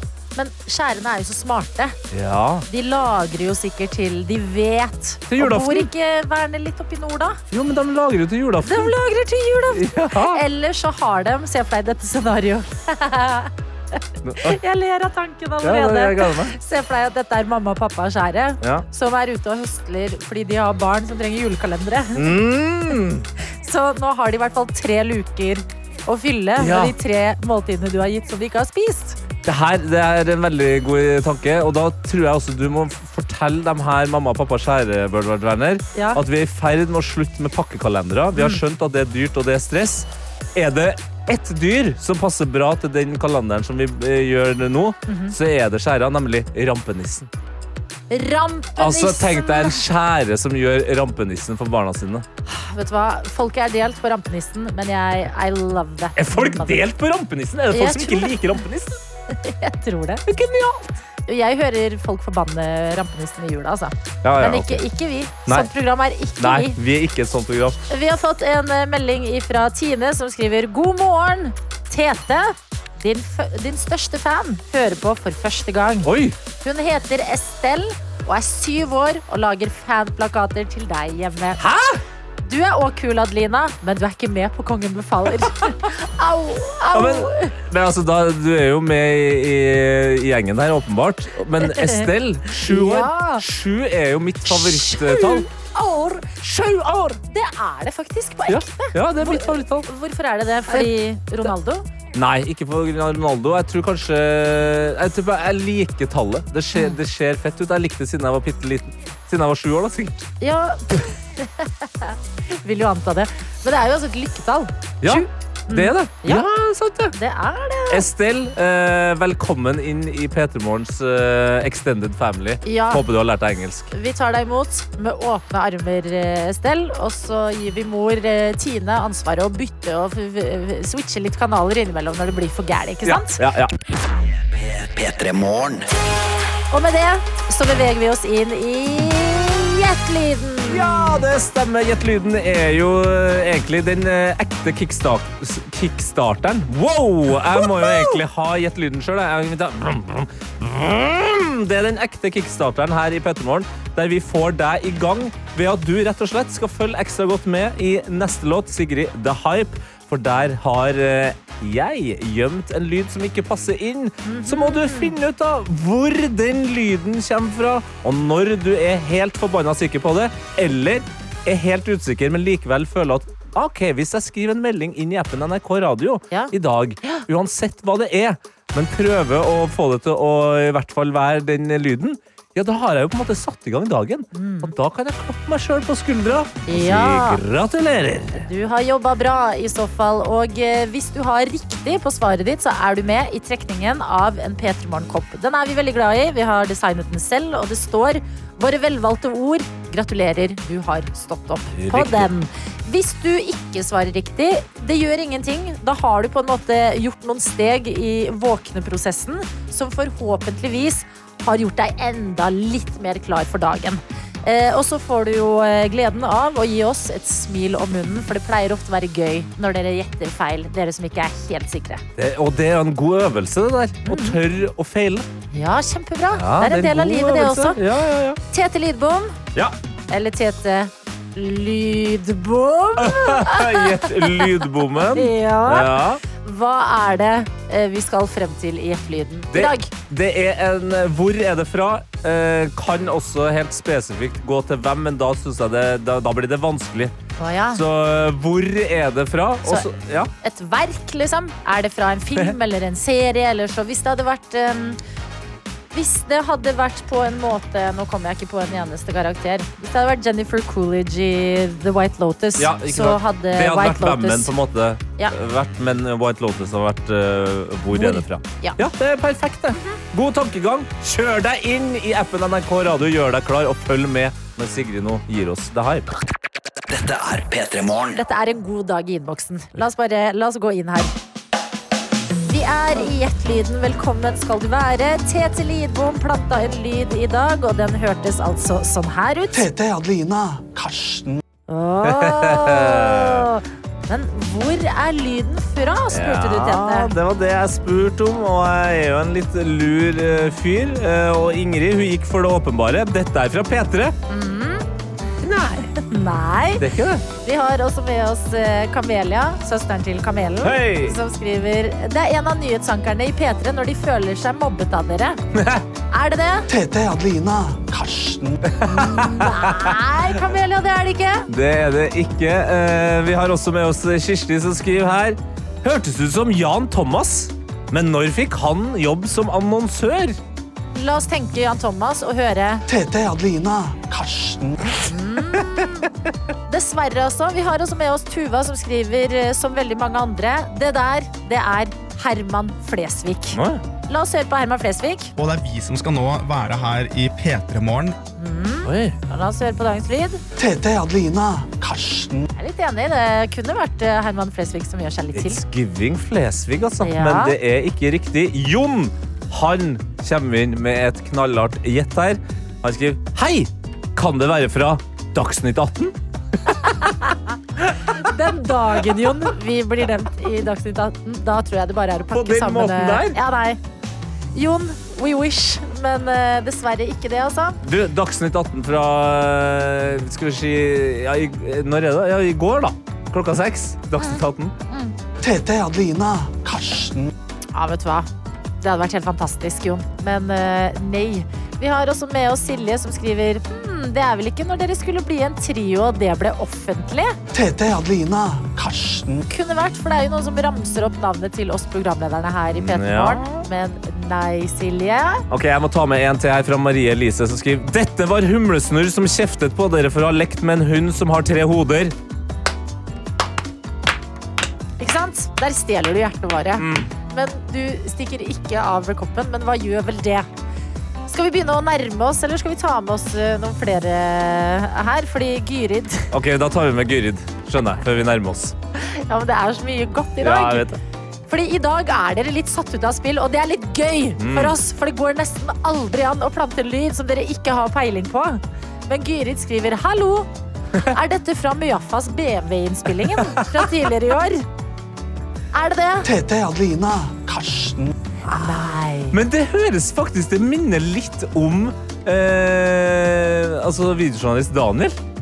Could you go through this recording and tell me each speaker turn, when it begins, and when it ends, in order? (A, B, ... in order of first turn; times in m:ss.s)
0:00.4-0:02.0 A
0:02.1-0:02.6 B
0:02.7-0:07.4 A
0:05.3-0:05.9 B
0:07.5-0:08.9 B
0:08.6-0:22.4 A
0:09.7-0:10.4 B
0:14.2-0:14.6 B
0:15.6-0:16.5 B
0:22.1-0:23.2 B
0:23.4-0:29.2 A
0:26.6-0:26.9 B
0:29.4-0:47.3 B
0:35.9-0:36.2 A
0:38.3-0:38.6 A
0:45.1-0:45.3 A
0:48.1-0:49.8 A
0:48.8-0:52.2 B
0:52.4-0:56.8 A
0:56.2-0:59.0 B
0:57.7-0:58.5 A
0:59.3-1:00.2 A
1:00.3-1:00.9 B
1:01.2-1:06.8 A
1:04.2-1:04.8 B
1:06.4-1:07.8 B
1:07.9-1:16.1 A
1:16.0-1:16.4 B
1:16.6-1:21.6 A
1:21.6-1:22.0 B
1:22.4-1:27.5 A
1:26.9-1:35.5 B
1:31.6-1:33.4 A
1:34.5-1:41.9 A
1:38.5-1:39.9 B
1:42.1-1:50.3 B
1:50.4-1:56.4 A
1:55.0-1:57.1 B
1:57.1-1:58.0 A
1:57.9-2:03.9 B
2:02.6-2:03.0 A
2:03.9-2:13.4 A
2:13.0-2:13.7 B
2:14.5-2:15.8 C
2:16.7-2:21.2 A
2:20.7-3:08.4 B
2:27.6-2:28.1 A
2:44.2-2:45.1 A
3:04.3-3:04.7 A
3:06.7-3:07.4 A
3:08.4-3:42.0 A
3:21.8-3:22.3 B
3:42.2-3:45.3 B
3:44.0-3:44.4 A
3:45.5-3:47.8 A
3:46.3-3:48.4 B
3:48.5-3:49.4 A
3:50.1-3:59.9 A
3:53.0-3:56.2 B
3:59.5-4:07.1 B
4:07.4-4:07.8 A
4:07.7-4:10.3 B
4:10.4-4:15.0 A
4:15.9-4:24.5 A
4:22.6-4:36.2 B
4:27.9-4:28.8 A
4:29.7-4:30.0 A
4:36.9-4:38.2 C
4:38.1-4:41.1 A
4:42.5-4:49.6 A
4:49.5-4:51.4 D
4:51.7-4:57.1 A
4:52.0-4:53.5 B
4:56.1-5:04.2 B
5:04.3-5:04.8 A
5:05.4-5:05.9 B
5:05.9-5:06.8 A
5:06.8-5:07.2 B
5:07.4-5:15.4 A
5:10.6-5:11.2 B
5:15.5-5:15.8 B
5:16.1-5:16.7 A
5:16.7-5:18.7 D
5:18.7-5:20.0 B
5:18.8-5:21.5 A
5:21.5-5:30.4 B
5:30.9-5:32.8 A
5:32.9-5:34.8 D
5:35.0-5:36.1 A
5:36.7-5:45.3 A
5:43.5-5:43.8 B
5:45.4-5:48.2 E
5:48.4-5:50.4 A
5:48.8-5:49.2 B
5:50.6-5:52.5 D
5:52.5-5:55.6 A
5:55.3-6:06.1 B
5:57.0-5:57.5 A
6:06.8-6:07.4 A
6:08.1-6:13.8 A
6:12.3-6:13.4 B
6:14.5-6:17.8 A
6:17.8-6:24.7 B
6:24.2-6:25.1 A
6:25.4-6:27.3 D
6:27.7-6:28.3 A
6:28.8-6:37.4 A
6:37.5-6:39.4 D
6:39.5-6:45.4 A
6:42.7-6:43.6 B
6:45.5-6:52.1 B
6:55.0-7:00.5 A
6:56.8-6:57.1 B
7:01.3-7:06.3 A
7:06.3-7:08.7 B
7:09.0-7:11.0 A
7:10.4-7:10.9 B
7:11.5-7:20.5 A
7:14.4-7:14.8 B
7:21.0-7:24.7 A
7:23.4-7:23.8 B
7:25.7-7:26.3 A
7:26.2-7:28.1 D
7:28.5-7:29.4 A
7:28.5-7:35.2 B